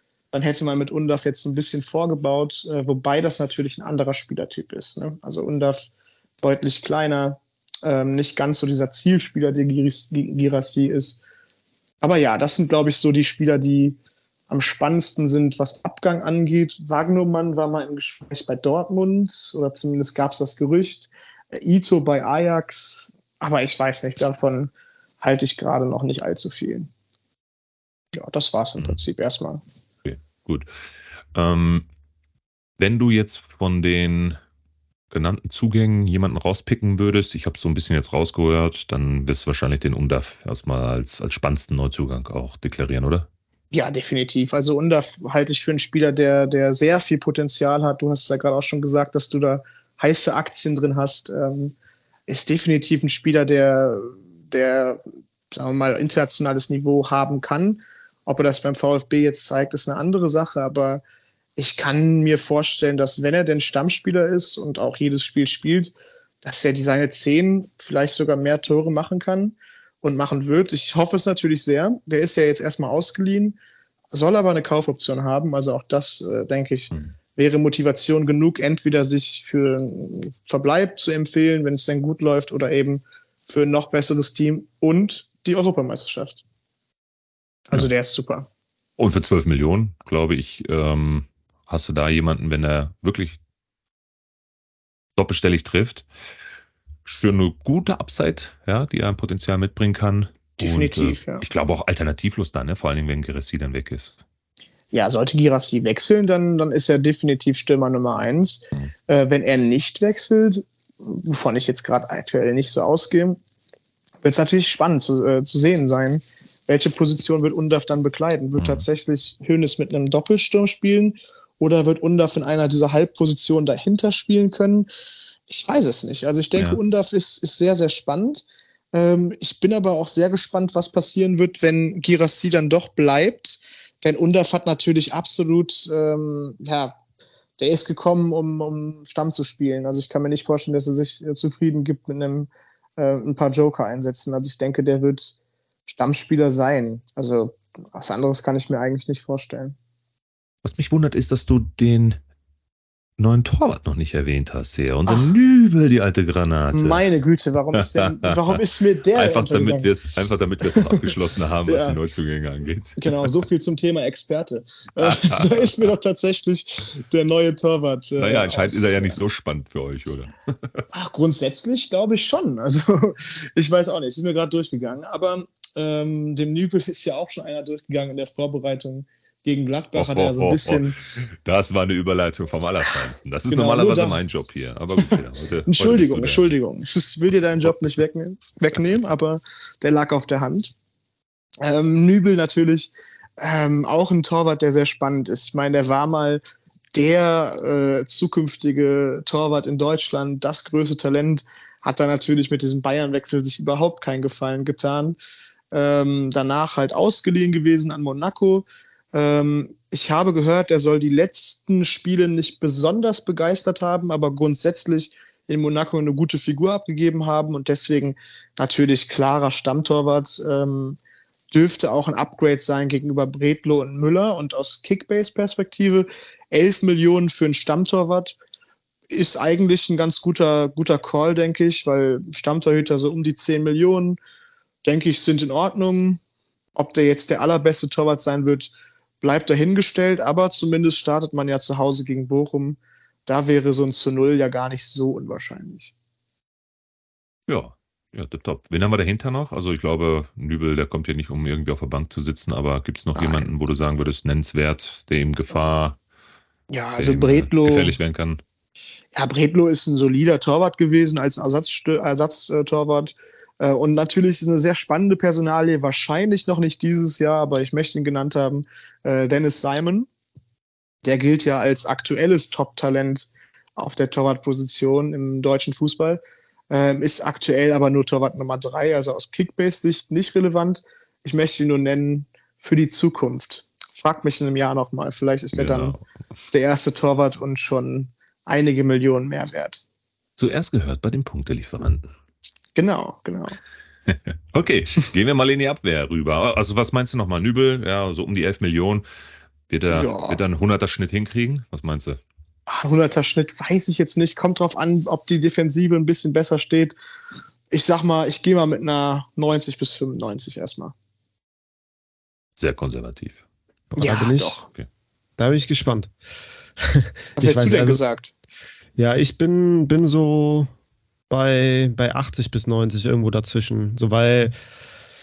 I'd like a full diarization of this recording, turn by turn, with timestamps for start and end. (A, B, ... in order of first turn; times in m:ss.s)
0:00.3-0:11.2 A
0:12.0-0:14.0 A
0:14.5-0:26.9 A
0:28.1-0:29.6 A
0:30.0-0:30.7 B
0:31.3-0:31.9 B
0:32.8-0:34.4 B
0:35.1-0:43.3 B
0:43.7-0:51.7 A
0:52.3-1:01.0 A
1:01.6-1:13.6 A
1:14.1-1:26.4 A
1:27.7-1:28.5 A
1:29.0-1:33.4 B
1:35.2-1:36.1 B
1:37.0-1:44.2 B
1:40.6-1:41.4 A
1:44.9-1:53.4 A
1:54.2-2:04.9 A
1:58.6-1:58.8 B
2:05.5-2:16.9 A
2:17.6-2:25.3 A
2:25.9-2:29.8 A
2:30.6-2:32.2 B
2:33.2-2:37.0 B
2:35.0-2:35.3 A
2:36.7-2:39.9 A
2:37.8-2:38.6 B
2:39.1-2:43.3 B
2:40.7-2:41.0 A
2:41.7-2:42.0 A
2:43.0-2:49.2 A
2:45.0-2:45.9 B
2:48.2-2:50.8 B
2:50.9-3:01.0 A
2:59.9-3:06.4 B
3:03.5-3:04.2 A
3:05.0-3:10.7 A
3:07.6-3:07.9 B
3:11.6-3:16.4 A
3:16.9-3:25.2 A
3:25.7-3:41.0 A
3:41.5-3:48.4 A
3:49.1-3:54.2 A
3:54.8-3:56.2 A
3:56.8-4:05.9 A
4:07.5-4:16.0 B
4:13.1-4:13.5 A
4:16.7-4:17.9 A
4:17.0-4:18.4 B
4:19.1-4:30.1 A
4:31.0-4:46.0 A
4:45.5-4:46.0 B
4:46.5-4:49.8 A
4:50.4-4:52.1 B
4:52.8-4:53.6 A
4:54.1-4:59.0 B
4:59.7-5:02.2 B
4:59.9-5:00.4 A
5:02.7-5:07.0 A
5:07.7-5:10.9 A
5:12.6-5:13.4 B
5:13.9-5:14.6 C
5:14.0-5:14.7 A
5:15.4-5:16.1 C
5:16.8-5:18.0 C
5:17.4-5:18.3 A
5:19.0-5:20.7 C
5:21.3-5:24.5 C